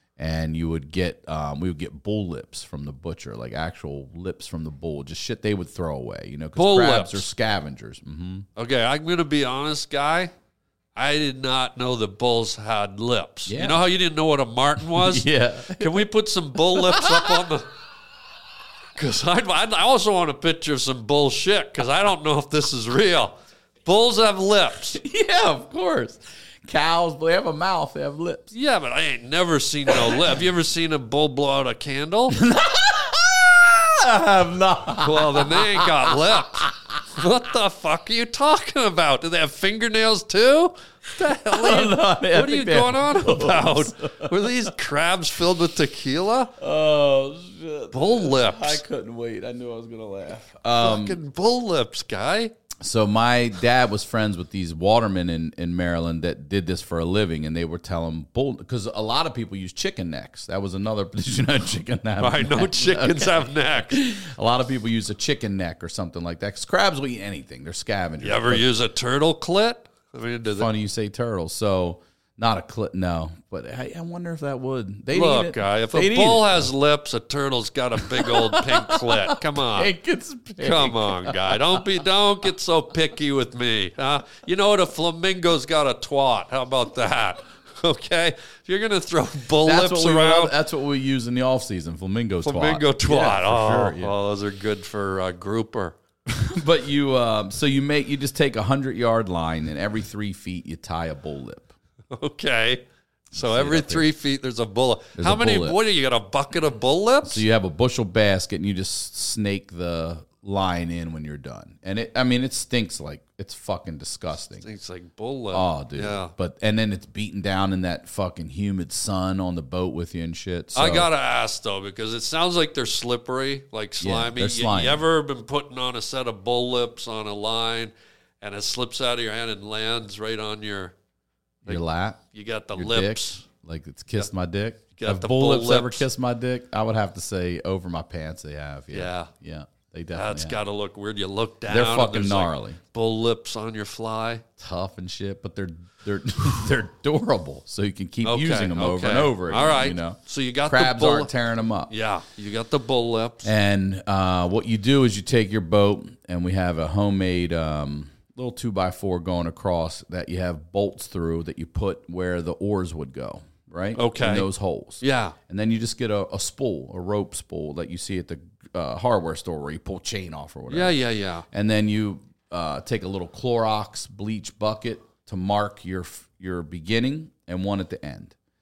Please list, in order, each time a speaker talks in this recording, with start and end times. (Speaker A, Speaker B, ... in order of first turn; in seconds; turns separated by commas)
Speaker A: 0.2-8.5, Speaker B: 6.6-7.3, Speaker B: 8.6-10.3, Speaker B: 10.9-17.7, Speaker A: 13.5-13.9, Speaker A: 14.9-17.5, Speaker B: 19.0-25.0, Speaker A: 24.9-28.5, Speaker B: 28.5-32.4, Speaker A: 29.9-30.4, Speaker A: 32.3-36.8, Speaker B: 35.0-46.5, Speaker A: 41.5-44.7, Speaker A: 46.6-51.2, Speaker B: 47.9-48.8, Speaker B: 50.8-52.5, Speaker A: 52.8-68.7, Speaker B: 62.2-64.0, Speaker B: 68.2-70.7, Speaker A: 70.5-76.7, Speaker B: 75.1-79.9, Speaker A: 78.0-81.8, Speaker B: 80.6-90.5, Speaker A: 89.6-94.1, Speaker B: 92.4-96.0, Speaker A: 96.3-101.7, Speaker B: 102.1-107.4, Speaker A: 103.3-104.1, Speaker A: 105.2-105.8, Speaker A: 107.2-114.7, Speaker B: 114.6-116.3, Speaker A: 115.5-121.1, Speaker B: 120.8-130.9, Speaker A: 124.0-125.0, Speaker A: 131.7-132.2, Speaker B: 131.7-133.5, Speaker A: 132.7-140.6, Speaker B: 135.0-136.1, Speaker B: 138.9-139.3, Speaker B: 140.1-144.4, Speaker A: 141.7-142.8, Speaker A: 144.6-151.9, Speaker B: 148.2-151.3, Speaker B: 151.9-153.5, Speaker A: 153.4-171.0, Speaker B: 164.0-165.4, Speaker B: 170.7-171.5, Speaker A: 171.5-178.3